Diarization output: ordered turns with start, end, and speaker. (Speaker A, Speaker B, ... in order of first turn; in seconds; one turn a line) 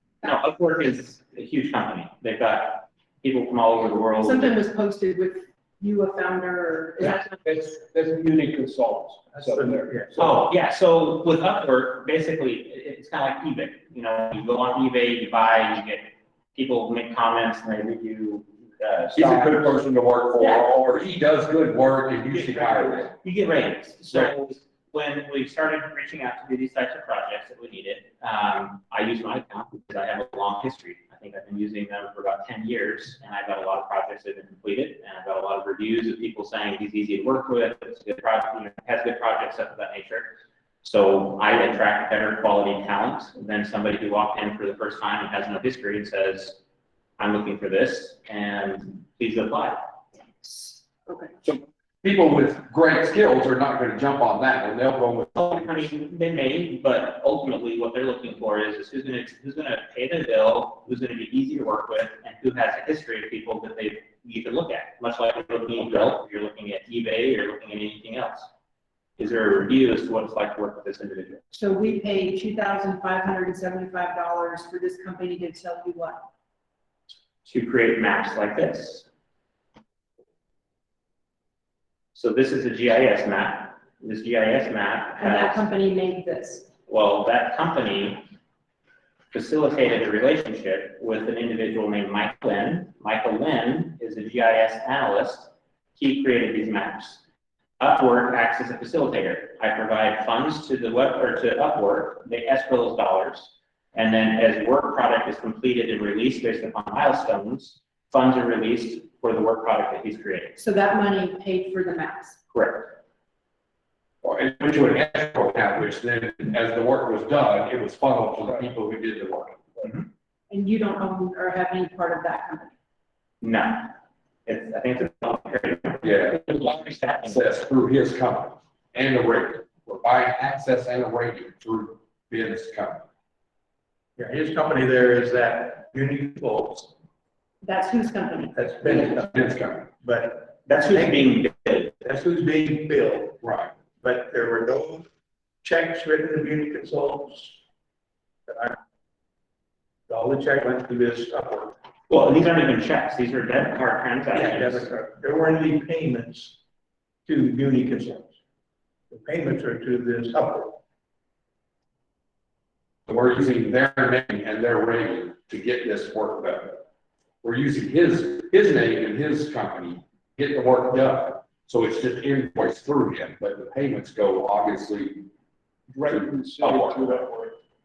Speaker A: 0.2-4.5
Speaker B: 4.2-7.4
Speaker C: 7.0-10.4
Speaker D: 9.3-10.1
Speaker A: 10.2-19.8
Speaker E: 19.1-23.1
Speaker A: 23.2-46.6
Speaker A: 47.2-49.8
Speaker B: 50.4-51.3
Speaker E: 51.4-55.9
Speaker A: 55.4-68.5
Speaker E: 65.8-66.1
Speaker A: 69.2-71.4
Speaker B: 71.5-76.3
Speaker A: 77.4-79.0
Speaker A: 82.1-85.6
Speaker B: 85.2-86.7
Speaker A: 86.9-88.2
Speaker A: 89.3-97.2
Speaker A: 97.8-110.6
Speaker B: 110.5-112.4
Speaker A: 112.5-112.9
Speaker E: 114.2-119.7
Speaker B: 120.5-122.7
Speaker A: 123.4-123.9
Speaker A: 124.5-127.4
Speaker E: 126.0-126.6
Speaker E: 127.2-133.0
Speaker D: 134.2-136.9
Speaker B: 137.6-138.7
Speaker D: 138.5-141.3
Speaker E: 138.9-139.8
Speaker A: 140.7-141.9
Speaker D: 142.0-143.4
Speaker E: 143.4-143.7
Speaker D: 144.0-145.1
Speaker D: 145.6-147.6
Speaker D: 148.5-148.8
Speaker D: 150.1-151.8
Speaker A: 152.1-154.9
Speaker D: 154.3-156.6
Speaker D: 157.2-158.3
Speaker D: 159.1-160.8
Speaker E: 163.1-166.8
Speaker E: 167.4-175.3
Speaker C: 175.9-177.6
Speaker E: 176.0-177.1